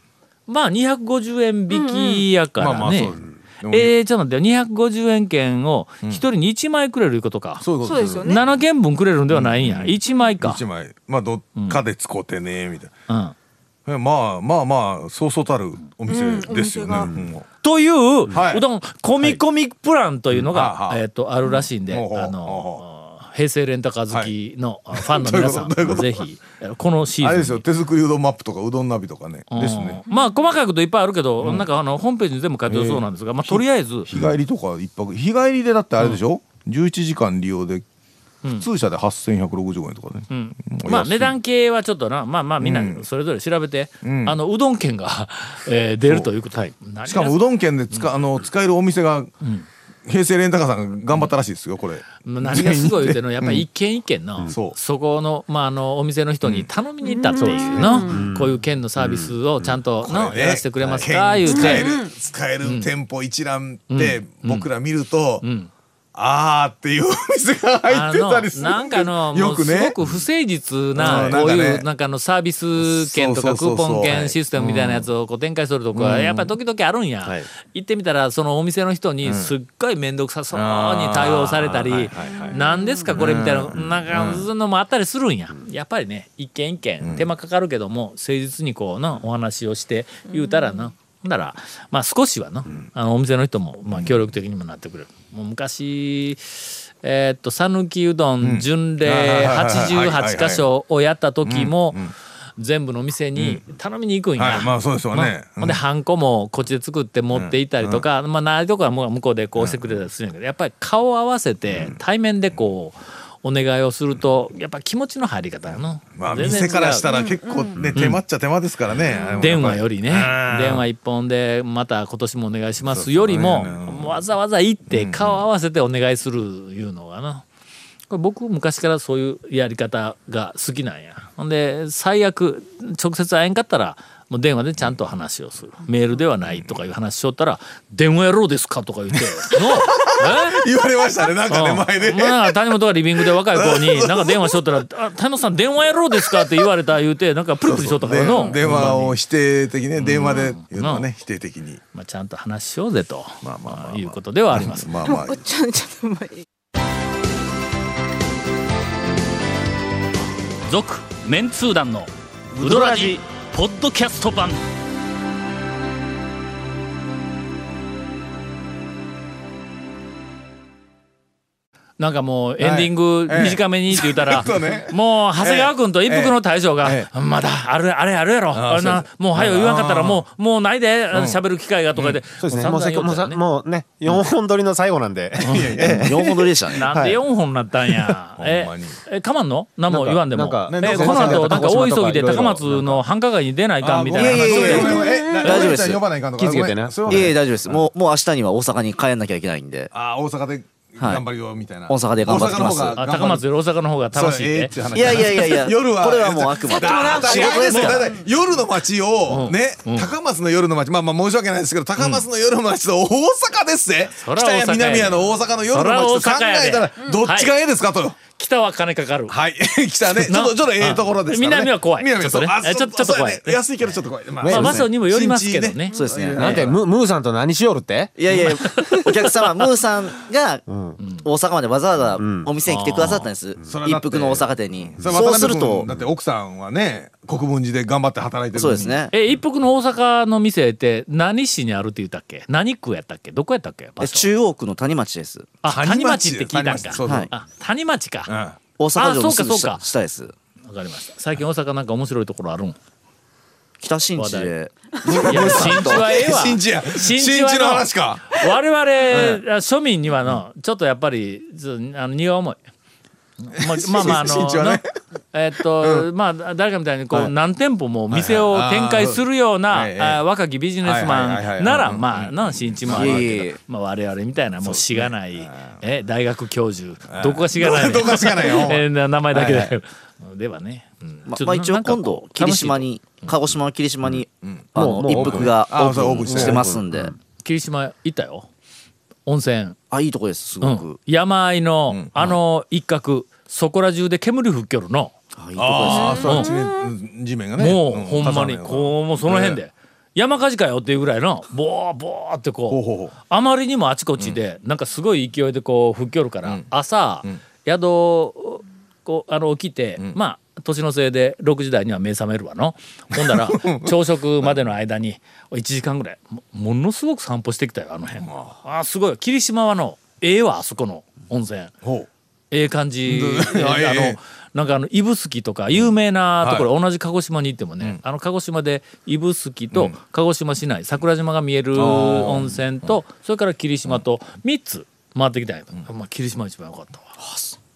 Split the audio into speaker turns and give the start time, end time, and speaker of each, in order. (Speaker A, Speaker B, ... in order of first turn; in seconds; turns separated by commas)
Speaker A: 0.5-7.7, Speaker B: 1.7-2.3, Speaker C: 2.6-3.9, Speaker C: 7.6-8.4, Speaker B: 7.8-8.4, Speaker A: 8.2-10.6, Speaker C: 9.3-12.9, Speaker A: 11.6-11.8, Speaker A: 13.1-13.3, Speaker C: 13.9-17.4, Speaker B: 16.1-17.1, Speaker A: 17.6-27.6, Speaker C: 18.3-18.6, Speaker C: 20.3-22.8, Speaker C: 24.9-26.1, Speaker C: 27.2-30.0, Speaker A: 29.5-34.3, Speaker C: 31.4-31.7, Speaker C: 32.7-37.8, Speaker C: 38.5-41.3, Speaker A: 40.3-47.4, Speaker C: 42.6-43.0, Speaker C: 44.0-44.4, Speaker C: 46.0-46.3, Speaker C: 47.0-49.3, Speaker A: 49.4-49.7, Speaker C: 50.0-53.7, Speaker A: 52.2-61.9, Speaker C: 54.5-54.8, Speaker C: 56.4-56.7, Speaker B: 57.0-58.2, Speaker C: 57.5-57.9, Speaker D: 58.1-59.8, Speaker C: 60.0-65.4, Speaker B: 61.5-62.1, Speaker A: 62.6-62.9, Speaker A: 63.9-64.7, Speaker A: 65.4-65.7, Speaker C: 66.1-70.0, Speaker A: 67.9-102.0, Speaker C: 70.9-71.8, Speaker D: 71.0-71.4, Speaker C: 72.8-75.1, Speaker C: 75.9-76.5, Speaker C: 79.2-79.5, Speaker C: 80.5-82.6, Speaker B: 82.4-83.1, Speaker C: 83.1-84.5, Speaker C: 87.0-87.3, Speaker B: 90.3-90.9, Speaker C: 93.9-94.2, Speaker C: 98.4-100.7, Speaker C: 101.4-102.1, Speaker A: 102.6-117.0, Speaker C: 103.4-103.6, Speaker C: 104.3-105.8, Speaker C: 107.3-108.0, Speaker C: 109.6-110.0, Speaker C: 111.7-112.0, Speaker C: 116.2-120.8, Speaker B: 117.0-118.0, Speaker A: 117.9-118.2, Speaker A: 119.3-127.4, Speaker C: 122.8-124.2, Speaker C: 124.9-125.4, Speaker A: 128.1-140.6, Speaker C: 139.1-142.6, Speaker A: 141.5-149.2, Speaker C: 143.2-144.7, Speaker C: 146.1-146.6, Speaker C: 147.6-151.8, Speaker B: 148.3-148.6, Speaker A: 149.9-151.1, Speaker A: 151.9-154.9, Speaker C: 153.4-155.4, Speaker B: 155.1-156.4, Speaker A: 160.7-164.6, Speaker E: 162.6-163.2, Speaker A: 172.0-183.4, Speaker C: 172.6-177.1, Speaker C: 178.5-180.2, Speaker C: 181.1-181.4, Speaker C: 181.9-182.2, Speaker D: 182.4-187.2, Speaker A: 185.4-186.1, Speaker C: 185.4-186.1, Speaker E: 185.9-186.8, Speaker A: 186.7-194.9, Speaker C: 188.4-189.0, Speaker D: 189.9-193.0, Speaker C: 190.7-191.8, Speaker C: 193.8-197.9, Speaker E: 194.2-196.0, Speaker B: 194.6-195.5, Speaker A: 195.5-195.7, Speaker D: 196.3-197.4, Speaker E: 197.1-199.9, Speaker C: 199.9-203.4, Speaker E: 201.9-203.0, Speaker A: 202.9-205.2, Speaker C: 204.1-218.2, Speaker E: 204.9-208.1, Speaker B: 206.7-207.8, Speaker A: 207.4-208.1, Speaker A: 209.3-210.1, Speaker A: 212.0-212.2, Speaker A: 214.1-217.5, Speaker A: 218.2-219.3, Speaker C: 219.3-226.8, Speaker A: 220.1-226.0, Speaker D: 224.4-224.9, Speaker E: 224.5-224.9, Speaker E: 225.9-226.7, Speaker D: 226.3-228.2, Speaker E: 228.2-230.6, Speaker A: 228.3-229.7, Speaker D: 230.7-231.0, Speaker E: 231.2-235.9, Speaker D: 232.1-232.5, Speaker A: 232.6-233.3, Speaker C: 233.6-239.0, Speaker D: 235.1-236.0, Speaker E: 238.5-239.1, Speaker A: 239.1-244.3, Speaker E: 244.0-245.5, Speaker A: 245.6-248.3, Speaker C: 245.7-247.3, Speaker E: 247.0-247.3, Speaker C: 248.3-248.6, Speaker E: 248.8-250.3, Speaker A: 248.9-249.8, Speaker A: 250.6-252.8, Speaker E: 253.8-256.1, Speaker A: 254.1-254.6, Speaker C: 255.1-258.4, Speaker A: 255.1-262.6, Speaker C: 259.0-259.4, Speaker A: 263.4-264.8, Speaker C: 263.5-264.9, Speaker A: 265.3-283.4, Speaker C: 265.8-266.1, Speaker C: 268.1-270.2, Speaker C: 270.8-273.3, Speaker E: 272.9-273.6, Speaker C: 274.6-275.8, Speaker C: 277.1-279.7, Speaker E: 281.3-287.1, Speaker C: 284.4-286.6, Speaker D: 284.8-285.6, Speaker D: 286.2-287.1, Speaker A: 287.4-288.5, Speaker A: 289.2-289.8, Speaker E: 289.9-291.0, Speaker A: 290.6-295.1, Speaker C: 291.9-292.4, Speaker E: 295.4-296.2, Speaker C: 295.6-299.6, Speaker B: 295.9-296.6, Speaker A: 296.2-296.5, Speaker A: 297.6-321.7, Speaker C: 302.7-303.1, Speaker C: 313.1-314.5, Speaker C: 318.2-318.5, Speaker C: 321.8-322.1, Speaker A: 322.5-337.1, Speaker C: 323.0-324.2, Speaker C: 326.4-326.7, Speaker C: 331.7-332.9